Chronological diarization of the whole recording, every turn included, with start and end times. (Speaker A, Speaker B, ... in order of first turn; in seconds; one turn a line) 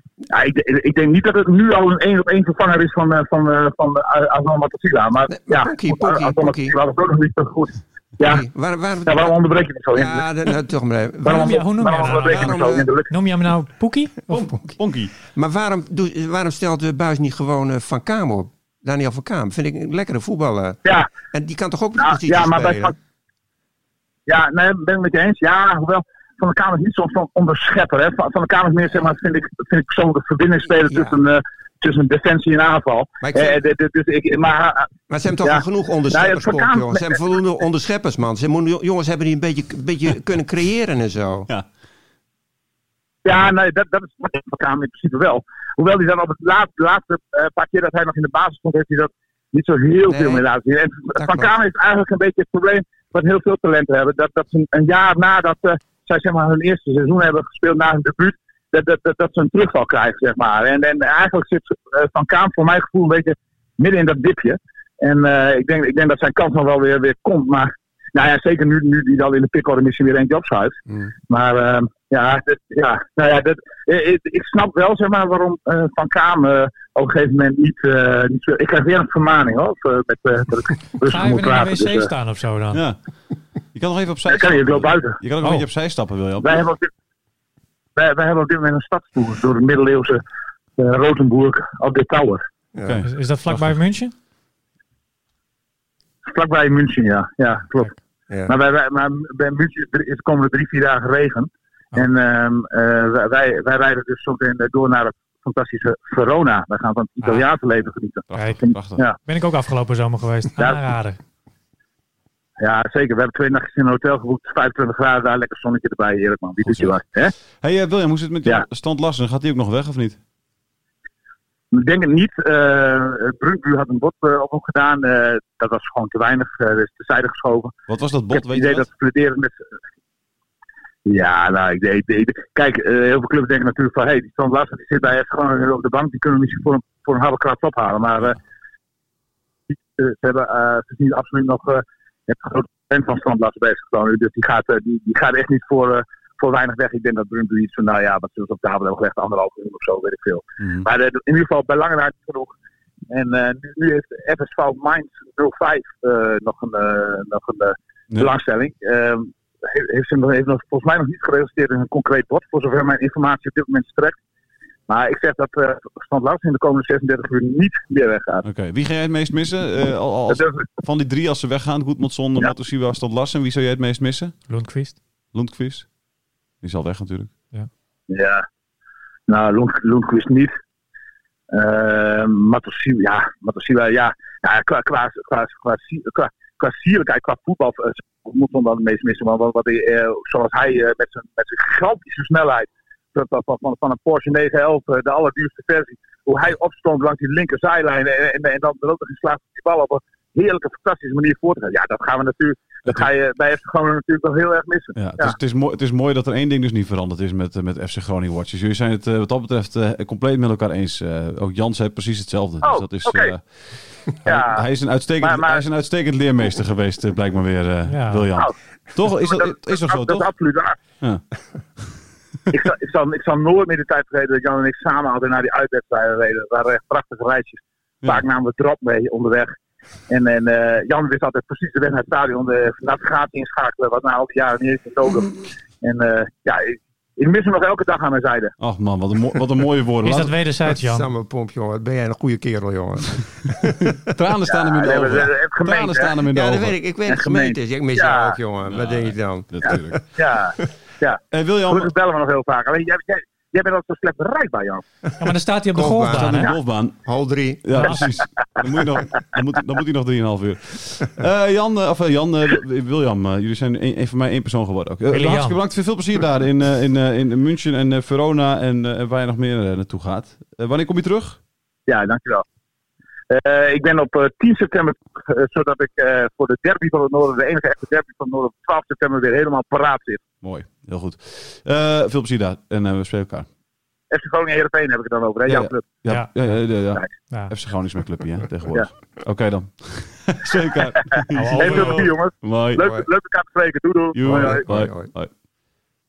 Speaker A: 0.3-8.4
Speaker B: 5.3-6.8
Speaker B: 8.2-9.3
Speaker A: 9.1-10.2
Speaker B: 9.9-12.9
Speaker A: 11.2-13.1
Speaker C: 11.2-14.5
Speaker D: 14.3-15.1
Speaker B: 15.3-22.9
Speaker A: 20.8-21.1
Speaker A: 22.0-22.9
Speaker A: 24.3-34.9
Speaker B: 30.7-31.2
Speaker B: 33.2-33.6
Speaker B: 35.1-41.5
Speaker A: 35.4-37.2
Speaker A: 43.2-82.1
Speaker B: 50.1-50.4
Speaker B: 51.1-51.5
Speaker C: 81.0-82.8
Speaker D: 82.7-83.0
Speaker D: 83.7-86.6
Speaker A: 84.3-85.2
Speaker A: 86.4-86.9
Speaker A: 88.0-90.2
Speaker A: 90.8-92.4
Speaker B: 92.7-93.0
Speaker D: 92.8-93.8
Speaker C: 93.0-94.1
Speaker A: 96.3-97.9
Speaker A: 98.5-109.2
Speaker D: 108.3-109.0
Speaker C: 109.2-111.2
Speaker A: 112.6-117.3
Speaker D: 116.6-117.0
Speaker D: 117.6-120.2
Speaker A: 121.7-127.7
Speaker D: 127.9-128.8
Speaker A: 128.3-129.5
Speaker A: 131.1-138.4
Speaker A: 139.7-152.5
Speaker D: 150.6-150.9
Speaker A: 153.1-164.2
Speaker A: 164.9-168.4
Speaker D: 168.4-174.4
Speaker A: 170.3-170.7
Speaker C: 174.5-175.0
Speaker D: 175.3-175.9
Speaker D: 176.6-177.3
Speaker A: 178.1-178.4
Speaker A: 179.3-180.5
Speaker A: 181.5-205.3
Speaker D: 204.9-220.3
Speaker A: 212.6-213.3
Speaker A: 214.2-214.6
Speaker A: 215.2-215.6
Speaker C: 217.9-218.3
Speaker A: 219.2-220.8
Speaker A: 222.5-229.5
Speaker A: 230.1-238.5
Speaker D: 238.6-240.3
Speaker C: 240.0-241.1
Speaker B: 240.8-243.9
Speaker D: 243.8-246.7
Speaker A: 244.5-246.2
Speaker B: 246.3-250.0
Speaker A: 247.1-248.4
Speaker D: 248.7-250.0
Speaker A: 250.2-254.8
Speaker D: 251.3-251.9
Speaker C: 255.2-256.5
Speaker B: 255.7-256.5
Speaker D: 256.1-257.0
Speaker B: 257.0-257.7
Speaker D: 257.6-271.4
Speaker C: 257.8-258.1
Speaker C: 265.1-265.6
Speaker A: 271.9-272.4
Speaker A: 273.3-280.2
Speaker D: 280.4-283.5
Speaker A: 284.1-286.0
Speaker D: 285.5-292.9
Speaker C: 286.1-286.7
Speaker A: 291.0-294.6
Speaker C: 291.3-292.1
Speaker B: 292.8-293.1
Speaker D: 294.1-295.3
Speaker B: 294.2-295.1